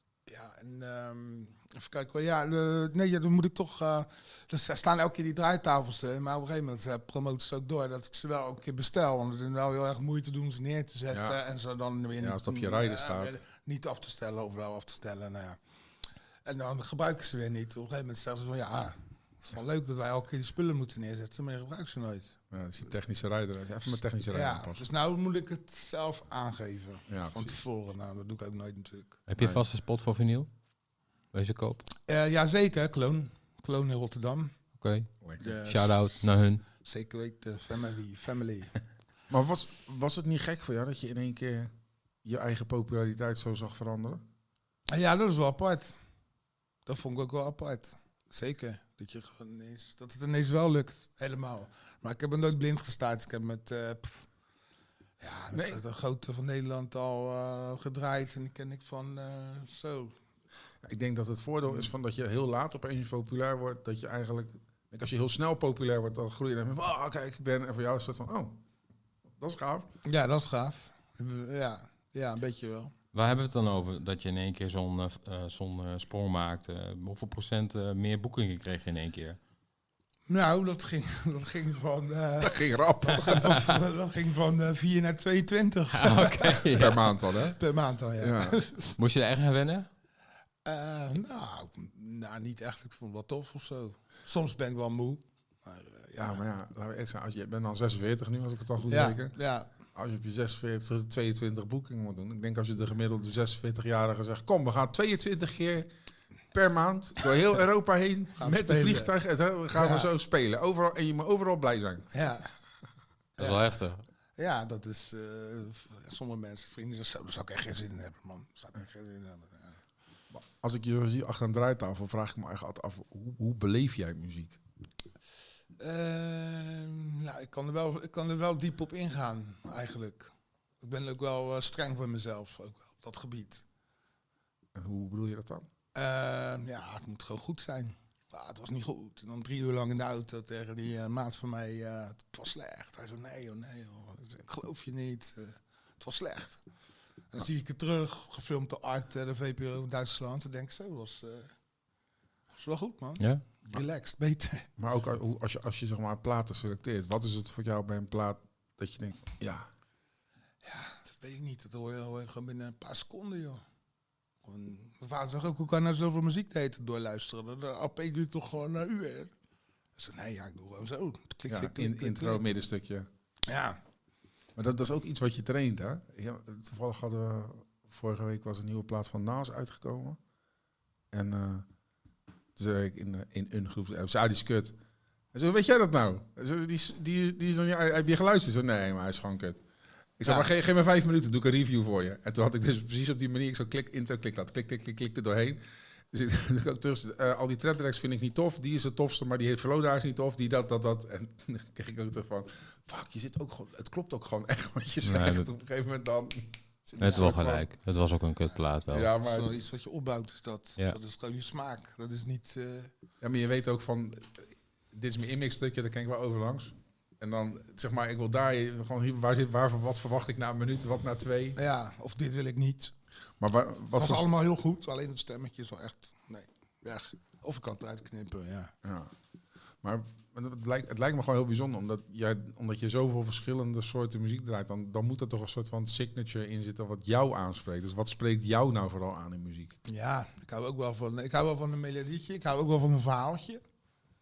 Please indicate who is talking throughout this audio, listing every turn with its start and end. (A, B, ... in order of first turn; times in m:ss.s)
0:00.2-0:15.6 A
0:11.1-0:11.4 B
0:12.2-0:13.4 B
0:16.4-0:22.4 A
0:22.5-0:24.9 B
0:24.3-0:29.2 A
0:27.1-0:27.5 B
0:29.3-0:30.5 C
0:29.4-0:29.6 B
0:31.3-0:31.8 C
0:32.1-0:34.5 A
0:34.8-0:35.1 C
0:35.4-0:38.7 A
0:35.6-0:36.6 C
0:39.3-0:41.7 B
0:42.2-0:44.2 B
0:44.9-0:46.0 A
0:46.8-0:54.3 A
0:55.2-1:00.2 A
0:55.5-0:55.8 B
1:00.8-1:08.6 B
1:09.4-1:09.9 B
1:10.0-1:12.9 A
1:13.1-1:19.4 C
1:20.3-1:28.9 A
1:22.4-1:23.7 B
1:25.9-1:27.1 C
1:26.7-1:27.5 B
1:28.2-1:28.6 B
1:29.0-1:29.9 C
1:30.6-1:36.4 A
1:36.2-1:39.4 B
1:38.9-1:39.7 A
1:39.9-1:45.9 B
1:46.5-1:52.1 B
1:48.4-1:49.1 A
1:49.7-1:50.1 A
1:52.1-1:52.5 A
1:53.4-1:53.6 A
1:53.4-1:54.0 C
1:54.4-1:59.8 A
2:00.3-2:04.6 B
2:05.8-2:13.6 A
2:14.7-2:15.7 B
2:15.9-2:26.6 A
2:27.3-2:31.5 A
2:32.6-2:34.7 A
2:34.8-2:39.7 B
2:40.6-2:43.6 A
2:44.4-2:49.3 A
2:50.0-2:52.4 A
2:51.5-2:53.1 B
2:53.5-2:53.8 A
2:54.6-3:00.2 B
3:01.1-3:01.6 B
3:02.6-3:04.8 B
3:05.3-3:09.6 B
3:10.2-3:27.6 B
3:25.0-3:25.5 C
3:27.0-3:29.1 C
3:28.9-3:29.5 B
3:29.2-3:32.9 A
3:33.2-3:41.6 B
3:41.6-3:42.9 A
3:43.4-3:44.2 B
3:43.9-3:48.7 A
3:48.8-3:49.1 B
3:49.8-3:59.8 B
3:59.8-4:03.6 A